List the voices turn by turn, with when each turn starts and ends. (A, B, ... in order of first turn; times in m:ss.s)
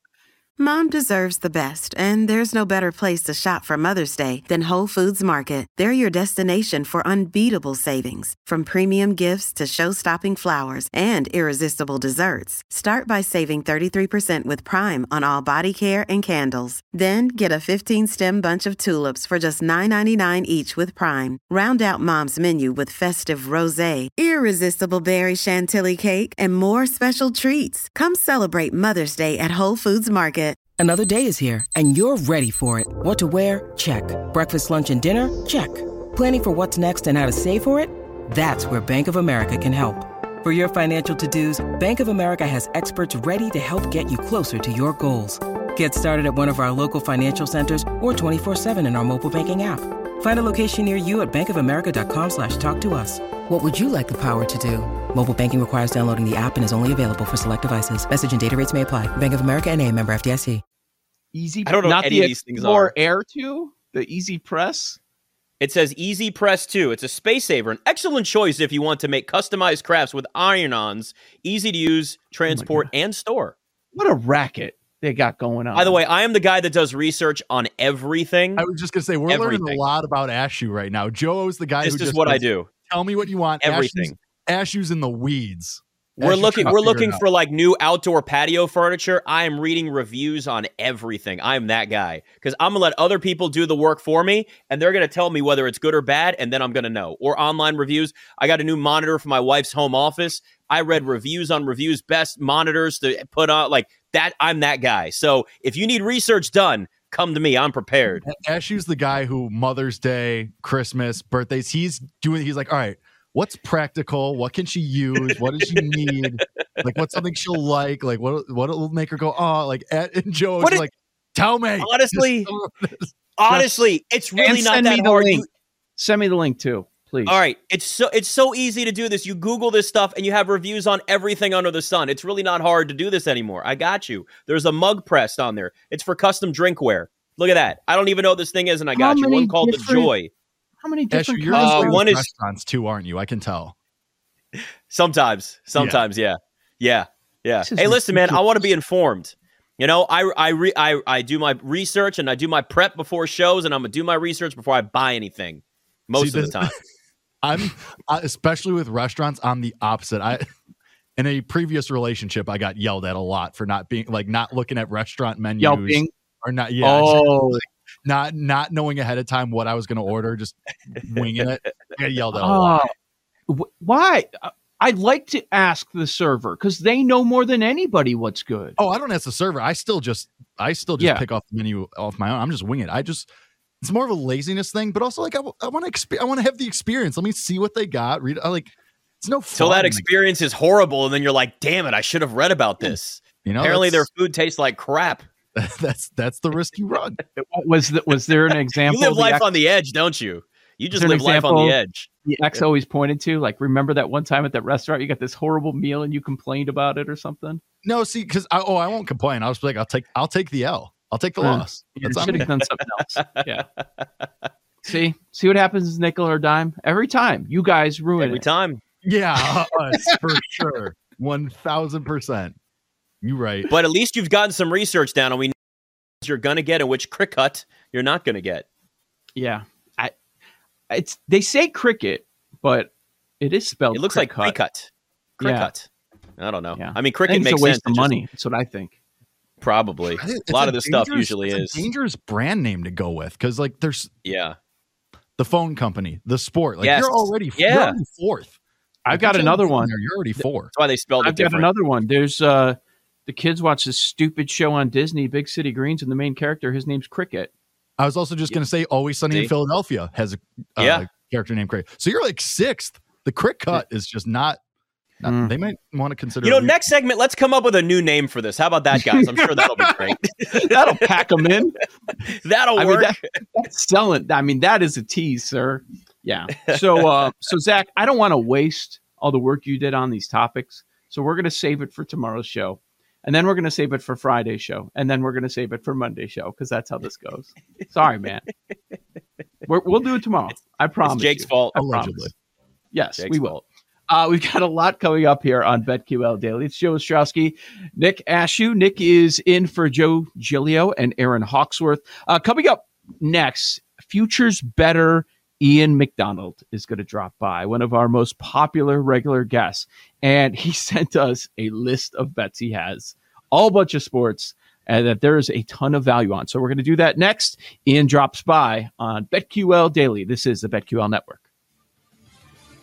0:00.6-0:30.6 A
0:30.8-1:00.6 B
1:01.3-1:05.0 C
1:01.7-1:02.9 D
1:05.6-1:13.6 D
1:12.5-1:12.9 C
1:13.9-1:16.0 C
1:15.7-1:18.6 D
1:18.6-1:27.2 E
1:19.3-1:19.8 D
1:21.8-1:22.7 D
1:23.6-1:24.2 D
1:26.2-1:48.2 D
1:48.2-2:03.9 E
1:55.7-1:56.2 D
2:01.8-2:02.5 D
2:03.4-2:05.5 D
2:04.4-2:05.5 C
2:06.0-2:07.4 C
2:07.3-2:20.3 D
2:18.9-2:20.1 C
2:20.8-2:22.0 C
2:21.1-2:23.7 E
2:21.5-2:22.3 D
2:24.9-2:36.7 D
2:25.8-2:26.0 E
2:27.6-2:28.4 C
2:36.2-2:36.7 E
2:37.4-2:40.4 E
2:41.2-2:52.8 E
2:45.6-2:46.1 C
2:46.8-2:47.6 C
2:52.4-2:52.9 C
2:53.5-2:58.8 C
2:58.8-3:03.3 E
3:01.0-3:01.2 C
3:03.8-3:10.1 E
3:09.5-3:15.2 D
3:13.4-3:14.1 E
3:15.6-3:17.2 E
3:17.4-3:19.6 C
3:18.8-3:22.1 D
3:20.9-3:27.6 C
3:27.8-3:32.5 E
3:31.4-3:33.6 C
3:32.2-3:32.5 D
3:33.2-3:33.6 D
3:34.8-3:38.4 C
3:38.2-3:38.8 D
3:39.0-3:42.6 E
3:43.2-3:43.7 E
3:43.7-3:45.6 D
3:46.2-3:48.6 D
3:49.4-3:50.1 C
3:50.9-3:54.6 C
3:53.9-3:58.2 D
3:55.4-3:55.7 C
3:56.8-3:59.0 C
3:59.6-4:01.9 D
4:00.2-4:04.1 E
4:04.2-4:04.6 D
4:05.4-4:08.5 E
4:06.8-4:08.0 D
4:09.1-4:09.9 C
4:09.1-4:10.7 E
4:10.7-4:11.7 D
4:11.2-4:17.5 C
4:18.0-4:24.6 E
4:20.8-4:21.1 D
4:25.2-4:26.8 E
4:25.2-4:25.5 C
4:26.4-4:30.7 D
4:30.5-4:31.8 C
4:32.3-4:33.3 D
4:32.8-4:48.5 C
4:49.7-4:52.3 C
4:51.0-4:51.8 D
4:51.8-4:52.3 E
4:52.9-4:53.6 C
4:53.2-4:53.6 D
4:54.1-5:21.4 C